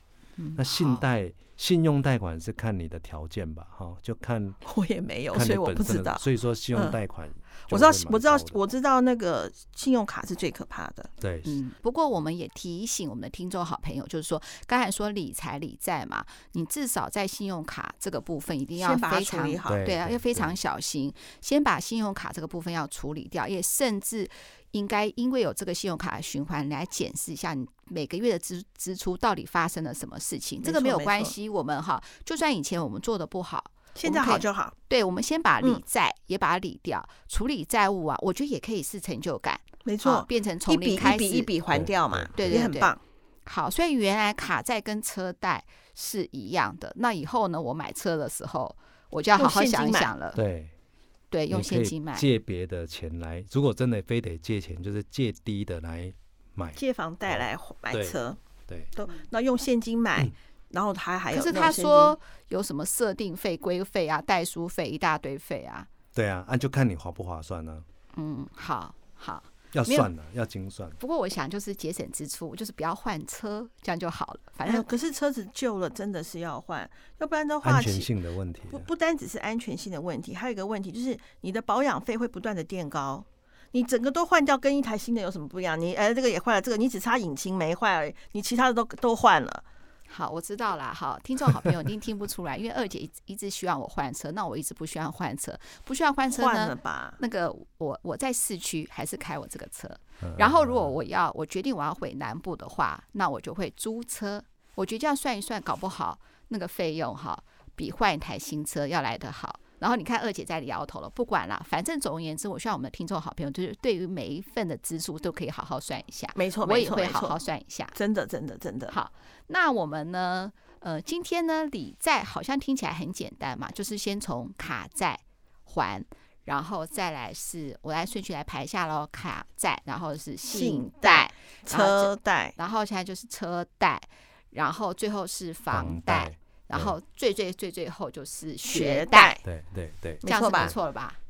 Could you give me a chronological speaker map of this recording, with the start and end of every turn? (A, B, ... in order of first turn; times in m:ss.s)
0:00.4-0:01.0 A
0:00.6-0:04.6 B
0:04.6-0:07.0 C
0:05.3-0:08.6 B
0:07.7-0:11.1 C
0:11.2-0:11.6 B
0:11.5-0:41.5 A
0:18.8-0:19.8 C
0:19.7-0:20.6 B
0:30.6-0:31.4 C
0:34.0-0:34.7 C
0:39.8-0:43.0 C
0:41.7-0:42.6 B
0:42.4-0:43.0 A
0:43.5-0:50.4 A
0:49.4-0:50.1 C
0:50.4-0:50.7 B
0:51.3-0:52.3 A
0:51.5-0:58.9 B
0:56.8-0:58.4 C
0:59.0-1:02.2 C
1:01.3-1:05.9 A
1:06.2-1:07.9 B
1:08.2-1:10.1 A
1:09.7-1:11.0 B
1:11.0-1:14.9 A
1:14.6-1:18.1 C
1:17.6-1:18.9 B
1:18.7-1:29.6 C
1:30.1-1:57.9 A
1:36.3-1:37.2 C
1:40.2-1:40.9 B
1:56.4-1:57.4 C
1:57.9-1:58.9 C
1:58.9-2:19.4 A
2:10.5-2:12.6 C
2:15.7-2:17.0 B
2:18.7-2:19.4 C
2:19.4-2:20.8 B
2:20.2-2:20.7 C
2:20.2-2:21.2 A